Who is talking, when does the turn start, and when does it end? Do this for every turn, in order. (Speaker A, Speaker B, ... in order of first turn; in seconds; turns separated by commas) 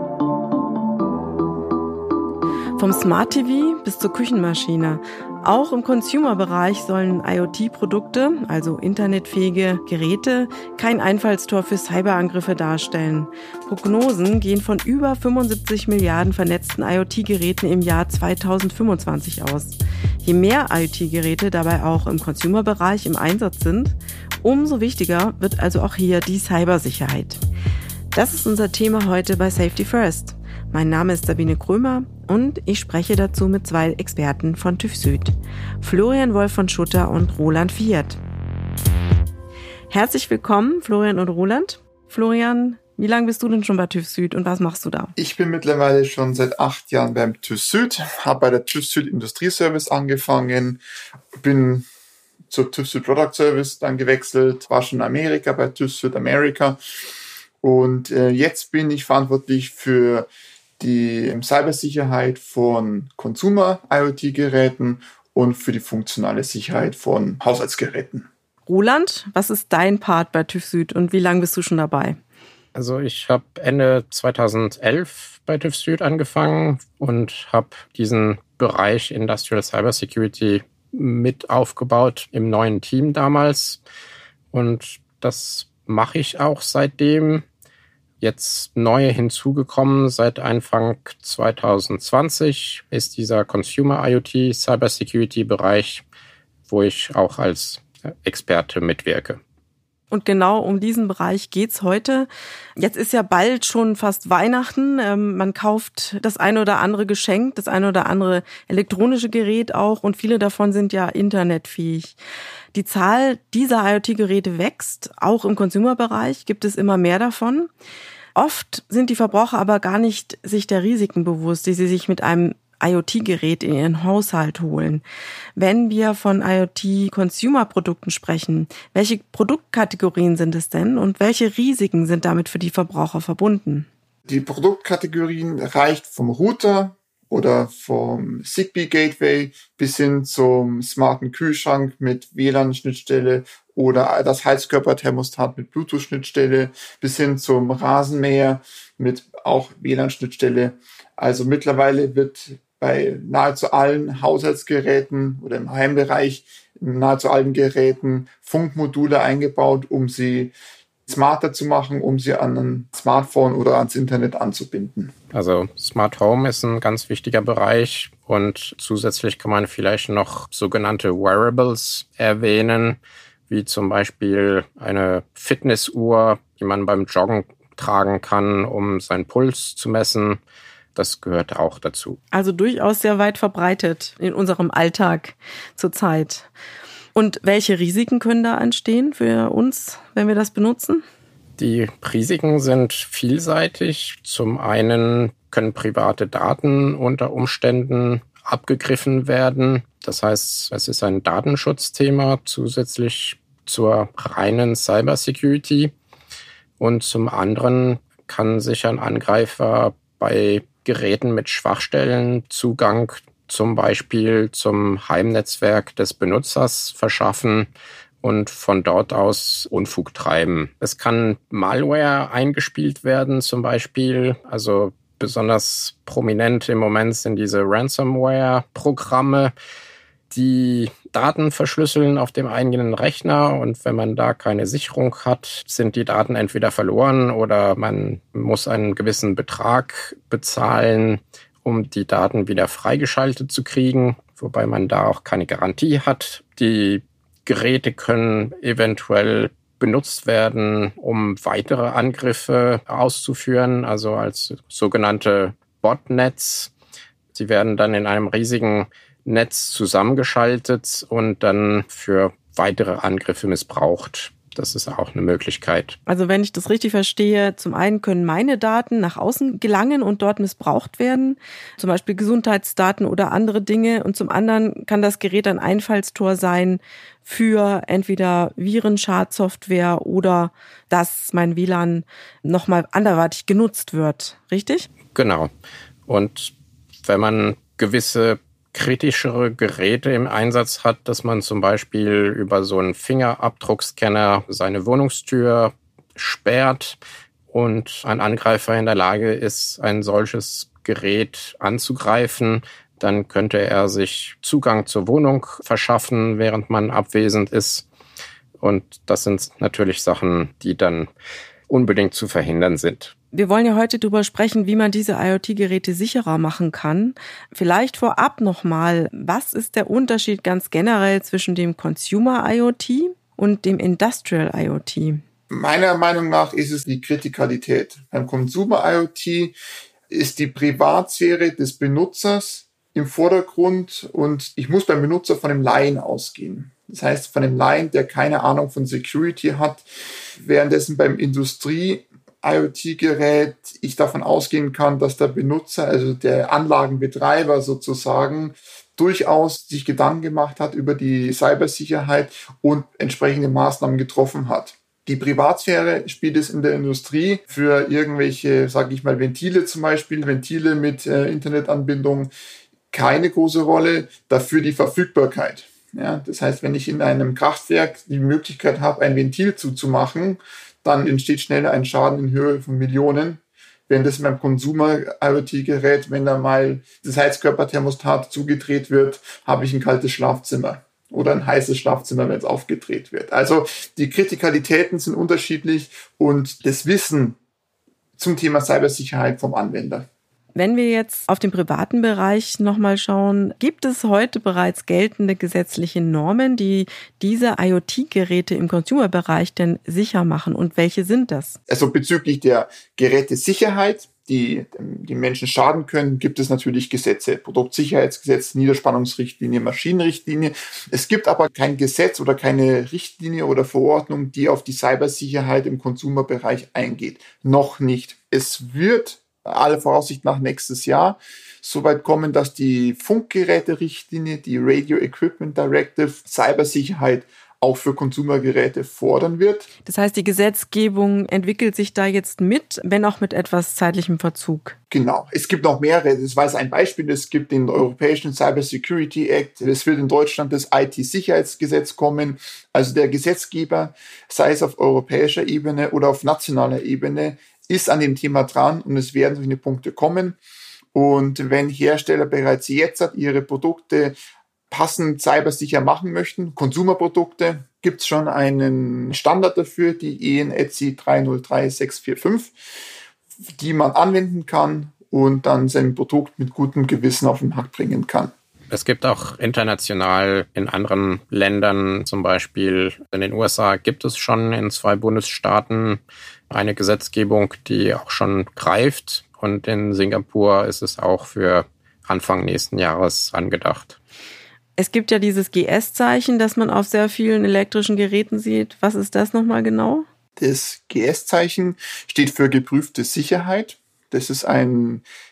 Speaker A: 2.8-27.4, Speaker A: 28.1-38.2, Speaker A: 39.9-45.1, Speaker B: 45.2-50.8, Speaker B: 51.4-51.9, Speaker B: 52.5-56.8, Speaker B: 57.6-60.3, Speaker B: 60.8-68.3, Speaker A: 68.7-72.2, Speaker C: 72.8-83.8, Speaker C: 84.5-87.5, Speaker C: 88.2-96.0, Speaker C: 96.7-99.4, Speaker A: 100.1-112.2, Speaker A: 112.7-117.7, Speaker A: 118.3-125.0, Speaker A: 125.6-133.9, Speaker B: 134.3-160.5, Speaker B: 161.1-165.1, Speaker C: 165.3-180.4, Speaker C: 180.9-182.2, Speaker A: 182.3-186.5, Speaker A: 187.2-191.0, Speaker C: 191.6-205.9, Speaker C: 206.8-217.7, Speaker C: 218.2-229.5, Speaker C: 230.3-256.7, Speaker C: 257.3-266.0, Speaker A: 266.1-284.9, Speaker C: 285.1-285.5, Speaker C: 286.1-297.0, Speaker C: 297.5-307.9, Speaker C: 308.6-311.1, Speaker C: 311.7-313.1, Speaker A: 313.3-325.2, Speaker B: 325.5-329.6, Speaker B: 330.1-339.9, Speaker B: 340.4-362.3, Speaker B: 362.9-387.4, Speaker B: 388.2-390.1, Speaker A: 390.6-401.6, Speaker B: 401.7-429.7, Speaker A: 429.9-434.8, Speaker B: 434.9-450.4, Speaker B: 450.9-454.2, Speaker B: 454.7-462.5, Speaker B: 463.6-468.3, Speaker C: 468.7-484.0, Speaker A: 484.8-490.1, Speaker B: 490.4-495.0